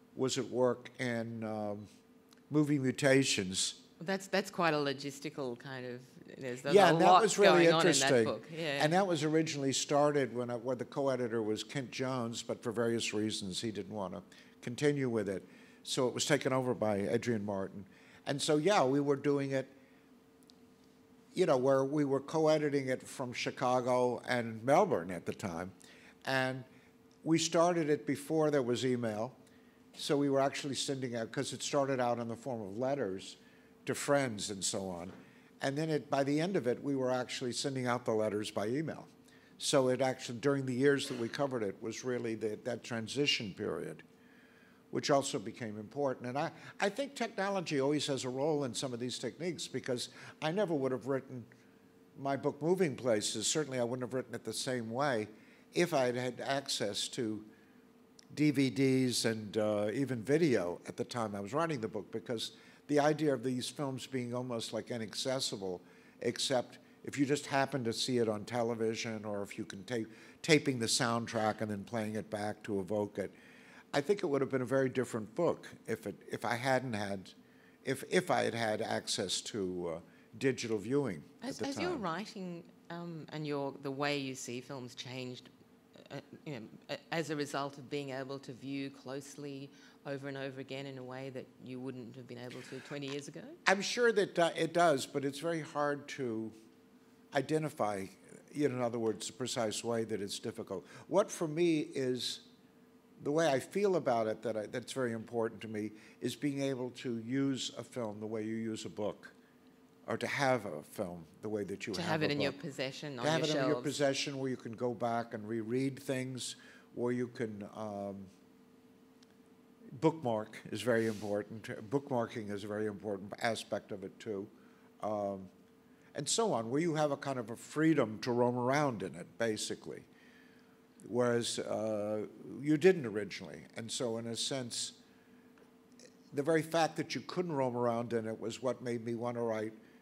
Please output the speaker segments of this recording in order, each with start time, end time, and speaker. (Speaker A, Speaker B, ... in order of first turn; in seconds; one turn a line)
Speaker A: 0.1-1.9
Speaker A: 2.5-3.8
Speaker B: 4.0-8.9
Speaker A: 6.7-19.7
Speaker A: 21.3-26.6
Speaker A: 27.2-29.4
Speaker A: 29.9-44.0
Speaker A: 44.9-51.5
Speaker A: 52.1-57.5
Speaker A: 58.3-73.3
Speaker A: 73.9-82.0
Speaker B: 81.4-93.6
Speaker A: 93.6-96.5
Speaker A: 97.3-102.4
Speaker A: 103.2-109.3
Speaker A: 110.0-112.5
Speaker B: 111.9-114.0
Speaker A: 113.2-118.3
Speaker A: 120.0-125.5
Speaker A: 126.1-130.1
Speaker A: 131.0-135.0
Speaker A: 136.3-139.7